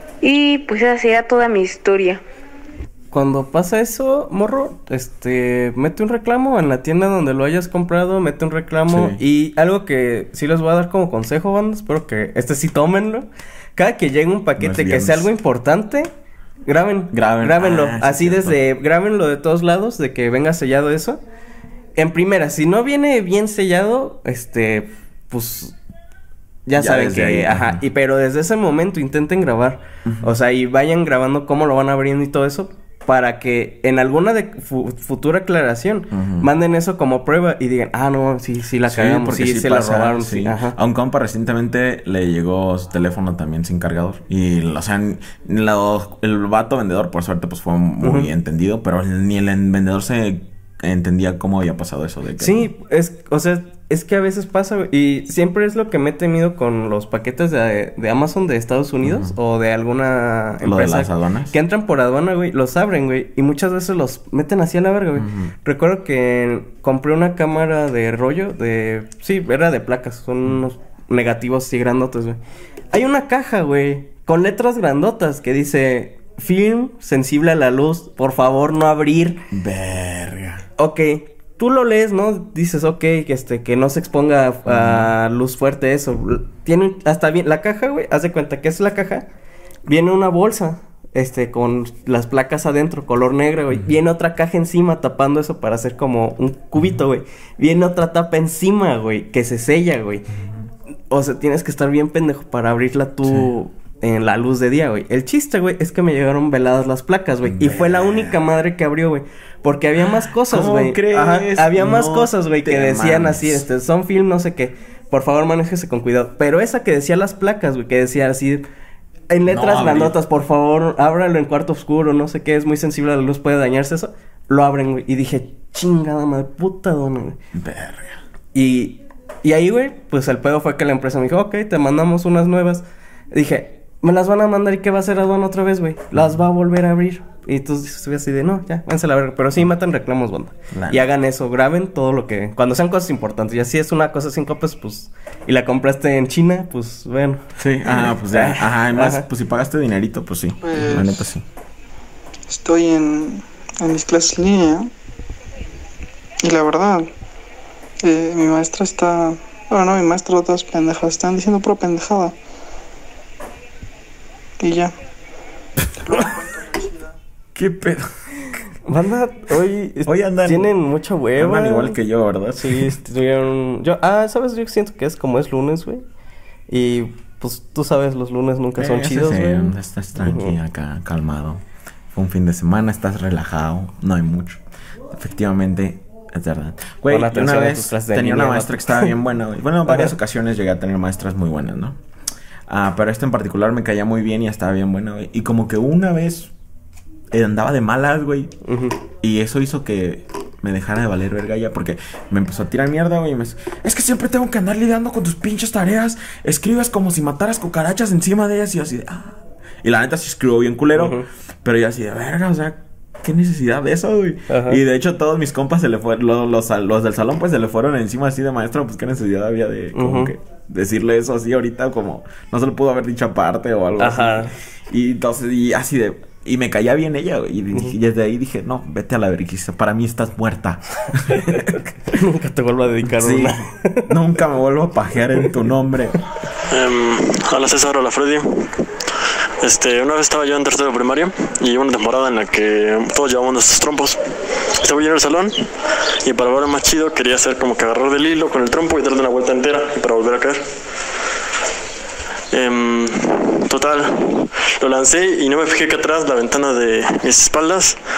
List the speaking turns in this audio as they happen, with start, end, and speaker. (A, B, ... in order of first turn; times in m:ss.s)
0:00.2-0:02.2 A
0:03.1-0:16.1 B
0:08.9-0:09.2 C
0:14.6-0:15.3 C
0:16.6-0:21.2 B
0:17.1-0:18.6 C
0:22.0-0:25.8 B
0:26.6-0:40.7 B
0:26.8-0:27.8 C
0:36.1-0:36.5 C
0:38.8-0:52.7 C
0:48.0-0:48.3 B
0:52.4-1:12.4 B
0:59.0-0:59.3 C
1:00.6-1:01.5 C
1:05.2-1:05.5 C
1:12.9-1:19.4 B
1:19.5-1:20.6 C
1:20.8-1:29.2 B
1:24.6-1:25.1 C
1:29.9-1:40.3 B
1:41.1-1:58.6 B
1:47.5-1:48.4 C
1:50.4-1:53.6 C
1:59.3-2:07.4 B
1:59.5-2:00.2 C
2:07.5-2:08.1 C
2:08.5-2:29.3 B
2:20.7-2:21.0 C
2:27.6-2:31.4 C
2:30.6-2:31.2 D
2:32.5-2:34.9 D
2:36.4-2:37.1 D
2:38.0-2:42.3 D
2:44.6-2:44.9 D
2:46.1-2:46.6 D
2:47.5-2:48.1 C
2:48.8-2:52.0 B
2:50.0-2:50.7 C
2:51.4-2:52.9 C
2:52.6-2:56.0 B
2:56.7-3:00.6 B
2:58.8-3:01.6 C
3:02.1-3:04.6 C
3:05.1-3:12.0 C
3:07.1-3:09.1 B
3:09.8-3:10.1 B
3:12.7-3:16.5 C
3:17.3-3:18.5 C
3:18.6-3:19.0 B
3:19.2-3:51.8 C
3:31.0-3:31.3 B
3:34.5-3:34.8 B
3:39.9-3:40.3 B
3:44.0-3:44.5 B
3:51.6-3:54.1 B
3:53.1-3:56.2 C
3:56.7-3:58.8 E
3:59.6-4:04.2 E
4:04.8-4:05.7 E
4:06.2-4:10.6 E
4:12.5-4:18.0 E